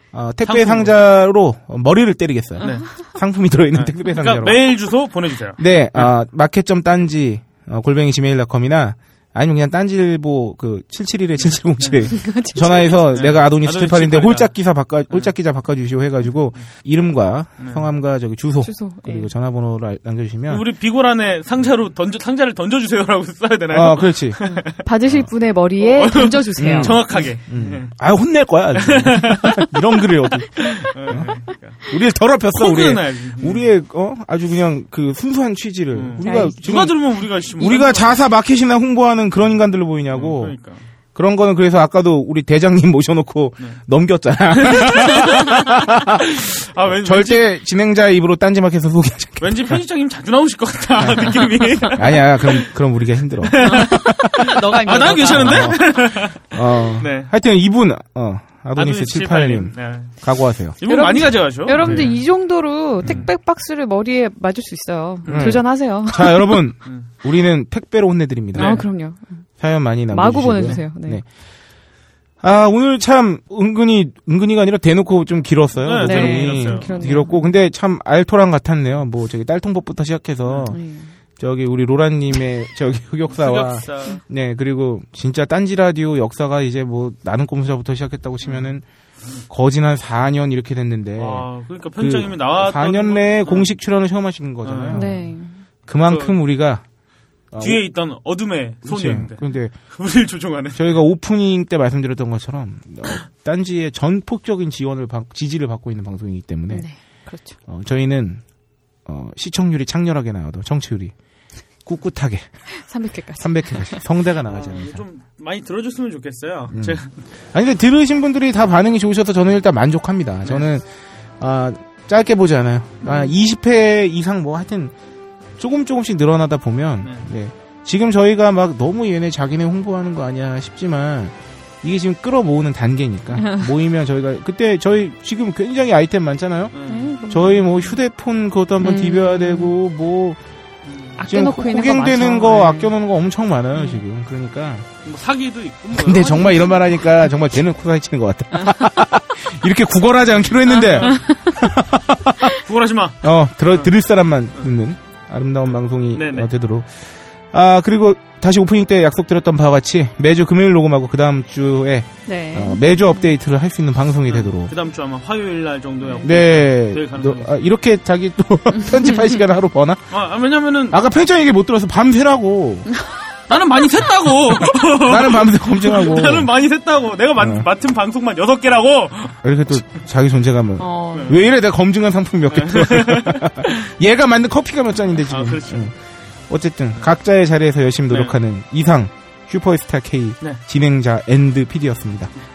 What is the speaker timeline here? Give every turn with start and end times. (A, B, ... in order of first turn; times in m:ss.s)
0:00.1-0:04.6 A
0:00.4-0:01.0 B
0:02.6-0:02.9 B
0:03.7-0:06.2 B
0:05.6-0:20.7 A
0:11.8-0:14.5 B
0:12.1-0:12.9 C
0:17.6-0:17.9 B
0:18.6-0:19.3 C
0:20.5-0:25.2 B
0:23.7-0:24.4 A
0:24.4-0:27.2 C
0:25.8-0:27.9 B
0:26.6-0:40.6 A
0:28.8-0:29.7 B
0:30.4-0:31.8 B
0:32.5-0:33.7 B
0:35.9-0:38.2 B
0:36.2-0:36.6 C
0:40.1-0:40.8 B
0:41.1-0:46.2 A
0:44.5-0:47.5 B
0:47.0-0:49.8 A
0:49.4-0:52.7 B
0:51.0-0:54.5 A
0:53.4-0:56.4 B
0:53.6-0:55.8 C
0:55.2-1:00.8 A
0:57.0-0:57.3 B
0:58.8-1:00.2 B
1:00.8-1:02.2 B
1:00.8-1:06.6 C
1:01.8-1:02.2 A
1:03.0-1:03.3 B
1:05.2-1:05.6 B
1:05.3-1:08.8 A
1:08.5-1:08.8 B
1:08.5-1:09.4 C
1:09.6-1:11.2 A
1:10.1-1:11.2 C
1:10.5-1:10.8 B
1:12.4-1:20.8 A
1:15.8-1:17.3 B
1:16.0-1:17.5 C
1:20.4-1:20.7 B
1:20.7-1:21.1 C
1:21.4-1:28.8 A
1:23.3-1:24.2 B
1:28.4-1:28.7 B
1:29.5-1:35.1 A
1:31.2-1:33.7 B
1:34.6-1:35.2 B
1:34.9-1:35.6 C
1:35.9-1:36.8 A
1:36.0-1:36.4 B
1:37.5-1:37.8 A
1:37.6-1:41.0 B
1:38.8-1:39.7 A
1:40.7-1:46.9 A
1:46.7-1:47.6 C
1:47.7-1:48.4 A
1:49.0-1:51.1 A
1:51.8-1:52.5 A
1:52.8-1:54.0 C
1:53.4-1:55.0 A
1:54.4-1:57.2 B
1:56.7-2:00.8 A
2:01.4-2:04.9 A
2:03.0-2:03.3 C
2:05.6-2:16.7 A
2:07.0-2:07.3 B
2:13.4-2:13.6 C
2:16.7-2:17.2 B
2:16.9-2:18.0 C
2:17.3-2:20.4 A
2:18.8-2:19.7 C
2:20.8-2:21.2 B
2:21.2-2:22.9 C
2:21.3-2:24.9 A
2:23.7-2:24.0 C
2:25.0-2:27.0 B
2:26.0-2:32.5 A
2:28.6-2:28.9 C
2:30.6-2:31.3 B
2:31.1-2:31.4 C
2:32.5-2:33.9 B
2:33.2-2:44.7 A
2:36.1-2:36.5 B
2:42.2-2:43.3 C
2:44.3-2:47.5 B
2:46.0-2:46.3 C
2:46.2-2:50.0 A
2:48.9-2:49.2 C
2:50.1-2:51.0 B
2:50.9-2:52.9 A
2:53.5-2:59.8 B
2:54.6-2:56.5 A
2:57.4-2:57.6 A
2:59.4-3:05.9 A
3:00.8-3:01.4 C
3:01.1-3:01.4 B
3:02.5-3:03.9 B
3:05.3-3:05.9 B
3:06.5-3:12.3 A
3:08.1-3:08.4 B